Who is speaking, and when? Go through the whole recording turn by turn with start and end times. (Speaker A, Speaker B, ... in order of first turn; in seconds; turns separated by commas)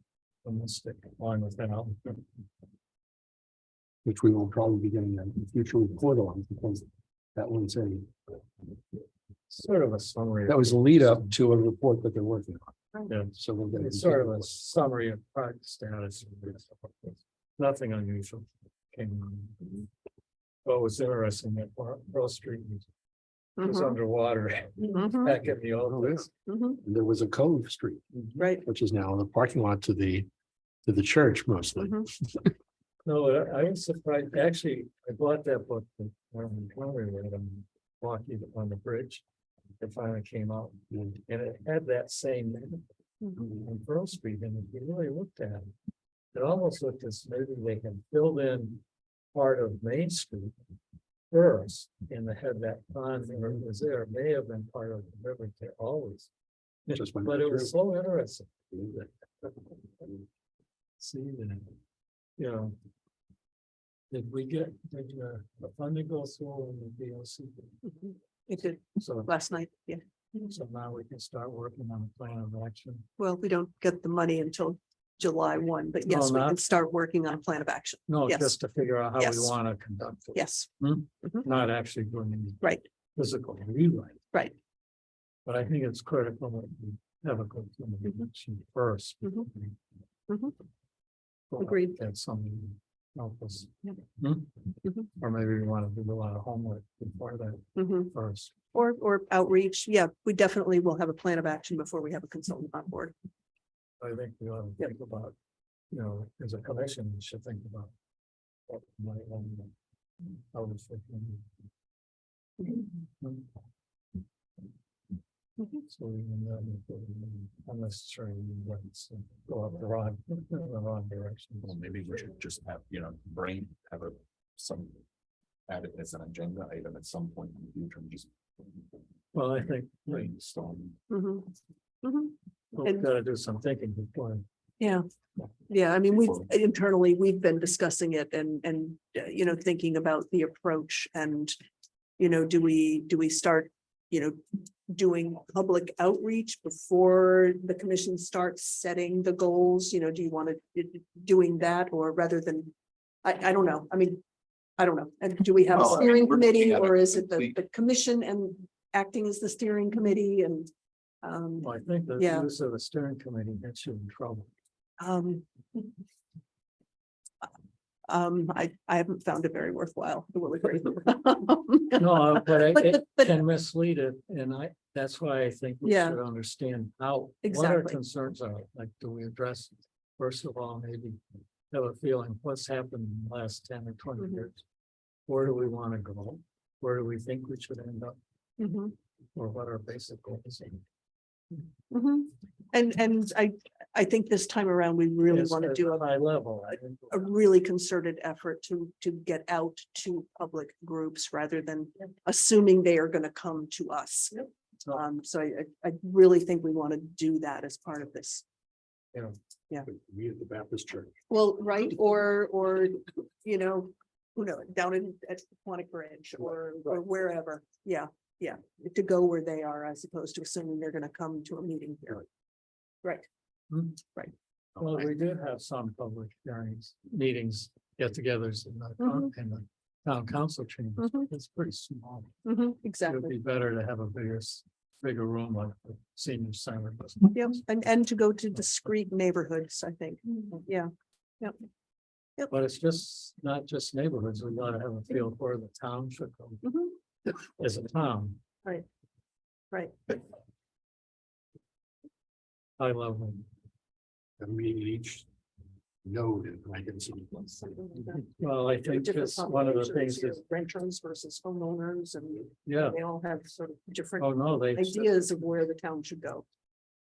Speaker A: 0.4-2.2, Speaker B: 4.0-6.8, Speaker B: 7.3-8.4, Speaker A: 9.5-11.3, Speaker B: 10.5-12.7, Speaker A: 13.1-19.9, Speaker B: 13.3-14.6, Speaker A: 20.6-22.9, Speaker C: 23.6-24.0, Speaker A: 23.6-26.3, Speaker C: 24.9-25.4, Speaker B: 25.9-26.3, Speaker C: 26.5-26.8, Speaker B: 26.8-28.0, Speaker A: 28.1-28.4, Speaker C: 28.4-28.6, Speaker B: 28.6-30.3, Speaker B: 30.8-32.5, Speaker C: 31.8-32.1, Speaker A: 33.0-39.2, Speaker A: 39.8-42.8, Speaker A: 43.4-45.7, Speaker A: 46.3-50.5, Speaker A: 51.3-56.3, Speaker A: 56.9-60.1, Speaker B: 56.9-57.7, Speaker A: 61.0-61.7, Speaker A: 62.4-62.7, Speaker A: 64.1-67.8, Speaker C: 67.8-70.0, Speaker A: 69.0-69.3, Speaker A: 70.3-73.1, Speaker C: 73.2-78.6, Speaker A: 76.0-76.6, Speaker A: 78.1-84.2, Speaker C: 79.2-79.5, Speaker C: 80.3-80.7, Speaker A: 85.5-89.8, Speaker C: 89.2-89.5, Speaker C: 90.3-90.5, Speaker A: 91.5-98.5, Speaker C: 91.6-92.0, Speaker C: 97.8-98.1, Speaker C: 98.7-103.1, Speaker A: 104.0-105.3, Speaker A: 105.9-107.9, Speaker A: 108.7-109.7, Speaker A: 110.5-111.5, Speaker A: 113.2-113.5, Speaker A: 115.8-121.8, Speaker D: 121.6-125.0, Speaker D: 125.7-128.3, Speaker A: 129.3-130.3, Speaker D: 130.1-131.0, Speaker C: 131.1-131.5, Speaker C: 132.0-133.1, Speaker A: 132.7-134.4, Speaker C: 135.7-141.5, Speaker C: 142.2-152.7, Speaker C: 153.2-154.2, Speaker C: 154.8-160.7, Speaker D: 155.7-157.6, Speaker C: 161.2-162.5, Speaker A: 161.6-164.5, Speaker C: 165.0-165.4, Speaker C: 168.1-173.4, Speaker A: 171.9-181.2, Speaker C: 175.8-176.2, Speaker C: 177.4-178.0, Speaker A: 181.7-184.6, Speaker A: 185.3-188.2, Speaker C: 188.6-188.9, Speaker A: 189.3-190.8, Speaker C: 191.9-196.0, Speaker A: 195.3-197.3, Speaker C: 197.1-208.4, Speaker B: 209.8-211.1, Speaker C: 211.3-222.2, Speaker A: 223.7-224.0, Speaker A: 224.8-232.3, Speaker C: 229.0-229.3, Speaker C: 231.0-231.3, Speaker C: 232.4-233.3, Speaker A: 233.1-237.6, Speaker C: 237.3-240.9, Speaker A: 242.5-246.6, Speaker C: 246.6-246.9, Speaker A: 247.5-248.4, Speaker C: 249.7-250.2, Speaker A: 252.8-253.5, Speaker B: 254.4-255.2, Speaker B: 256.0-257.6, Speaker C: 257.6-266.4, Speaker A: 258.2-260.4, Speaker A: 262.6-263.0, Speaker A: 264.2-265.1